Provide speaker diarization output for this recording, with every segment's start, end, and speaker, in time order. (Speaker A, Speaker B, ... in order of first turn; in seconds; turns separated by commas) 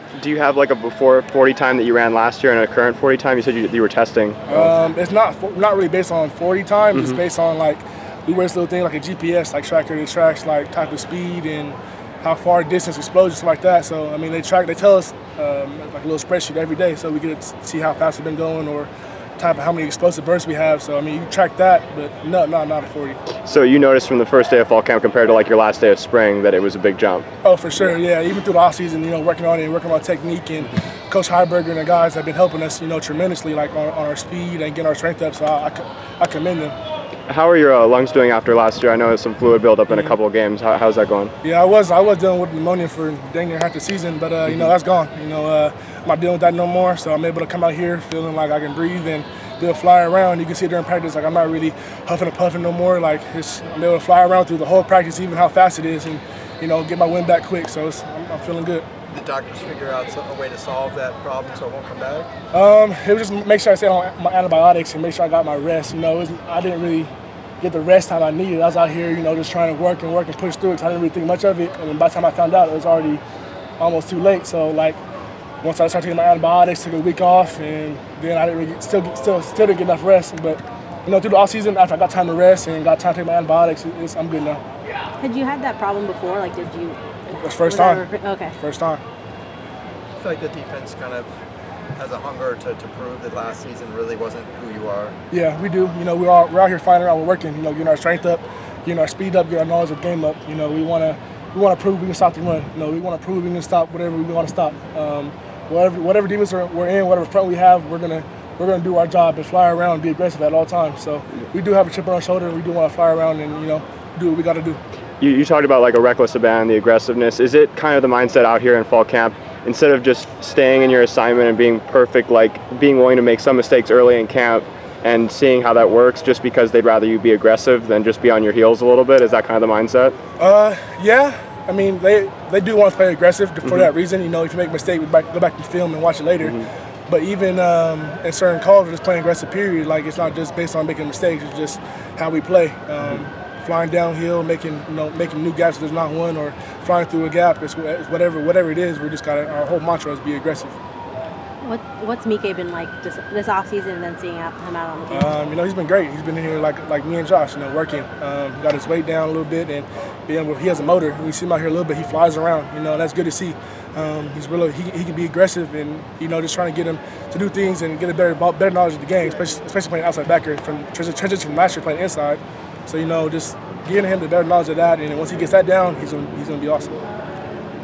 Speaker A: 0.1-4.7, Speaker B: 4.5-23.2, Speaker A: 6.9-7.2, Speaker A: 23.4-27.3, Speaker B: 27.4-36.8, Speaker A: 37.3-41.3, Speaker B: 41.4-58.9, Speaker C: 59.1-62.3, Speaker B: 62.5-73.2, Speaker B: 73.8-75.0, Speaker B: 75.6-84.6, Speaker D: 85.2-87.0, Speaker B: 87.3-88.0, Speaker D: 87.6-88.6, Speaker B: 88.6-89.0, Speaker C: 90.2-91.3, Speaker C: 91.9-95.2, Speaker B: 95.3-114.8, Speaker A: 115.2-130.2, Speaker B: 130.4-136.6, Speaker A: 136.4-136.7, Speaker B: 137.1-150.8, Speaker D: 151.6-155.3, Speaker B: 155.1-176.9